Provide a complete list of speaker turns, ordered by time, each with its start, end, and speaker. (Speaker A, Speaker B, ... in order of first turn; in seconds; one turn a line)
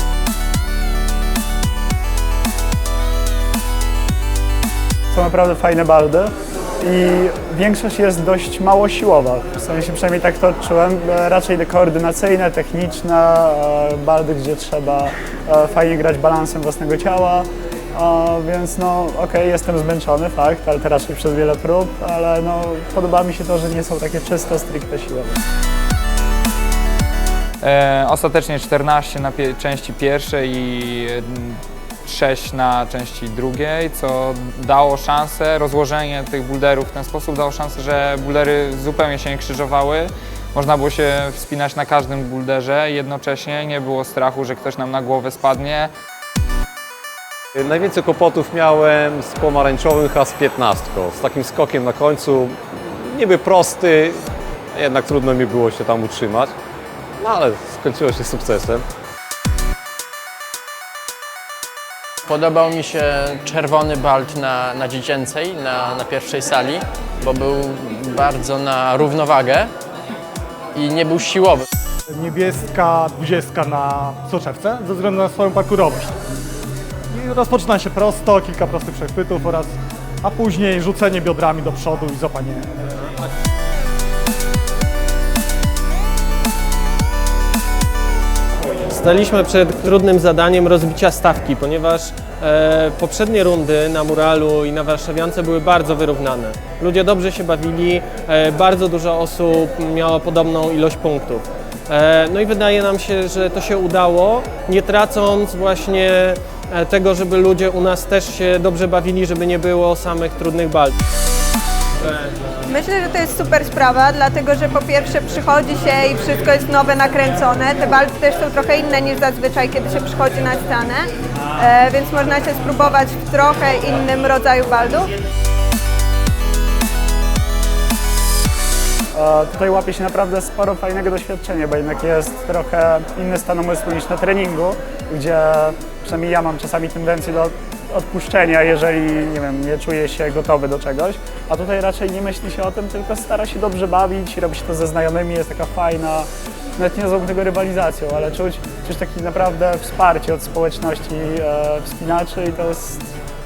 Speaker A: 5.1-25.4
Speaker B: 27.6-45.9
Speaker C: 47.6-54.2
Speaker C: 54.7-56.5
Speaker C: 57.2-58.8
Speaker D: 62.3-69.7
Speaker D: 70.8-71.7
Speaker E: 72.1-76.1
Speaker E: 77.1-82.7
Speaker F: 88.6-111.0
Speaker G: 112.7-125.1
Speaker A: 129.2-153.1